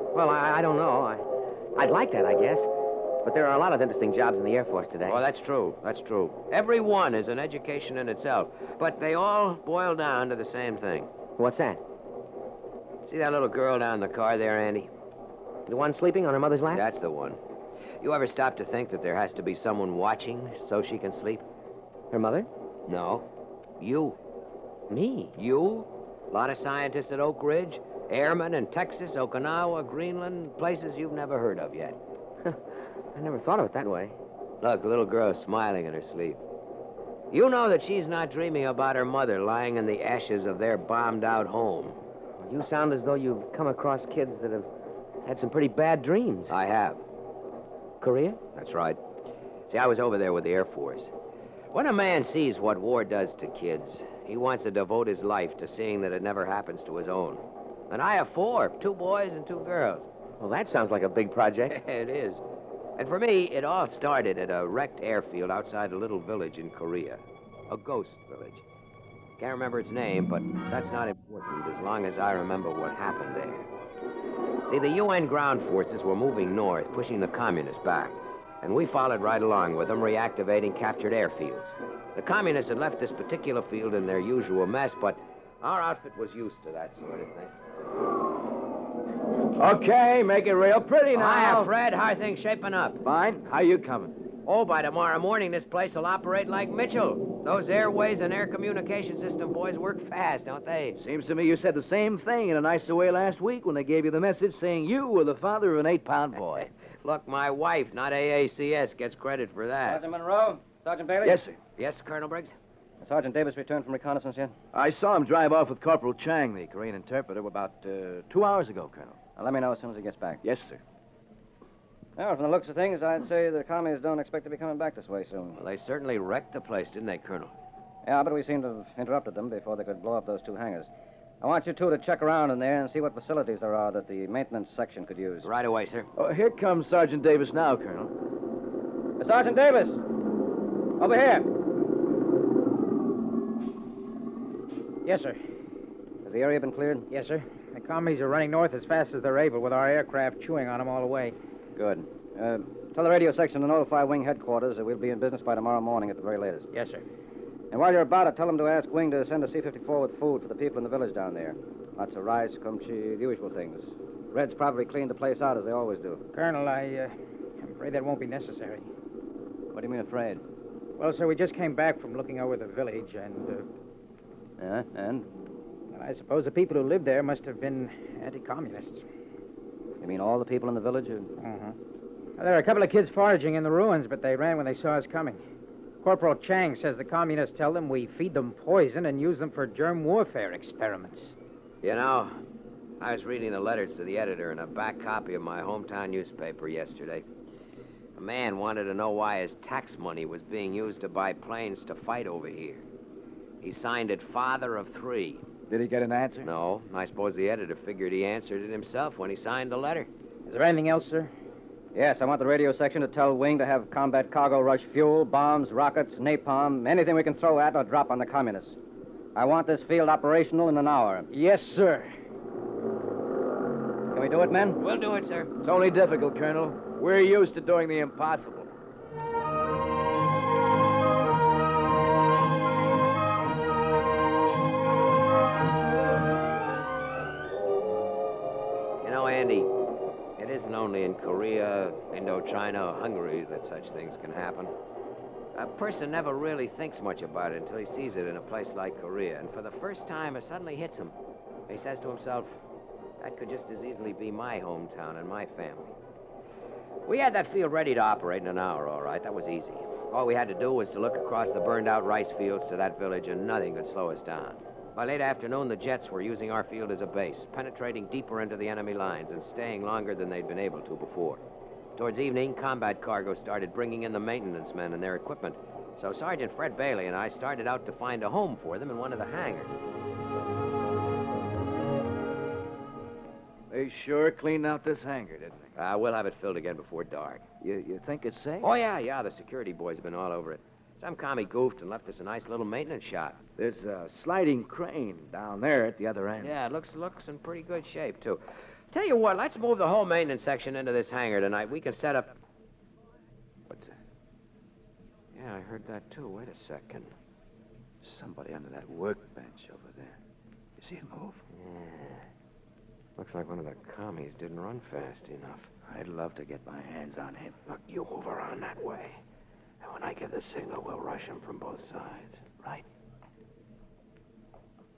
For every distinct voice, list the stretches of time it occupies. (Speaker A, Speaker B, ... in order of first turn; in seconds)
Speaker A: 0.1-2.7, 3.2-5.2, 11.4-11.8, 15.7-16.8, 22.1-22.5, 24.9-25.3, 32.4-34.1, 42.4-44.7, 45.2-46.5, 48.0-48.4, 60.4-61.8
Speaker B: 5.1-11.1, 13.1-14.9, 16.7-17.4, 18.0-21.4, 22.9-23.2, 23.8-24.1, 25.3-32.0, 34.6-36.4, 37.3-42.0, 46.5-47.0, 48.5-49.0, 49.7-51.1, 51.7-60.1, 61.7-62.4, 63.0-68.6, 69.4-73.7, 74.7-87.5, 91.1-93.0, 94.4-101.0, 107.0-110.0, 111.8-112.5, 125.6-127.5, 135.4-136.1, 191.8-192.4, 193.0-197.2, 198.2-202.8, 203.6-205.4, 206.4-210.1, 224.8-225.5, 239.0-239.7, 240.4-244.7, 245.5-251.1, 251.7-252.6, 253.2-255.9, 257.1-271.4, 272.0-279.8, 285.8-287.4, 288.6-293.4, 296.4-298.4, 298.9-302.4, 303.7-303.9, 305.3-307.1, 311.6-312.2, 313.2-315.7, 317.7-319.2, 319.8-322.4
Speaker C: 89.5-91.7, 93.0-94.1, 101.0-106.7, 111.2-111.6, 114.7-119.3, 120.4-120.8, 136.2-138.1, 205.7-206.5, 225.6-228.7, 283.7-285.7, 287.6-288.7, 293.6-296.5, 308.0-310.2, 310.8-311.4, 315.9-317.6
Speaker D: 109.8-111.4, 113.0-114.5, 119.3-120.4, 122.2-125.6, 128.0-130.9, 131.4-135.5, 139.2-140.0, 141.0-141.5, 146.2-147.1, 151.8-156.7, 157.7-166.2, 169.7-170.4, 174.6-175.3, 180.0-181.3, 211.9-218.8, 219.3-221.3, 224.1-224.8
Speaker E: 145.0-145.4, 147.1-151.3, 156.7-157.0, 166.3-168.8, 171.0-173.7, 175.9-179.0, 181.4-181.8, 182.4-185.4, 186.0-191.3, 210.5-211.3, 221.3-222.1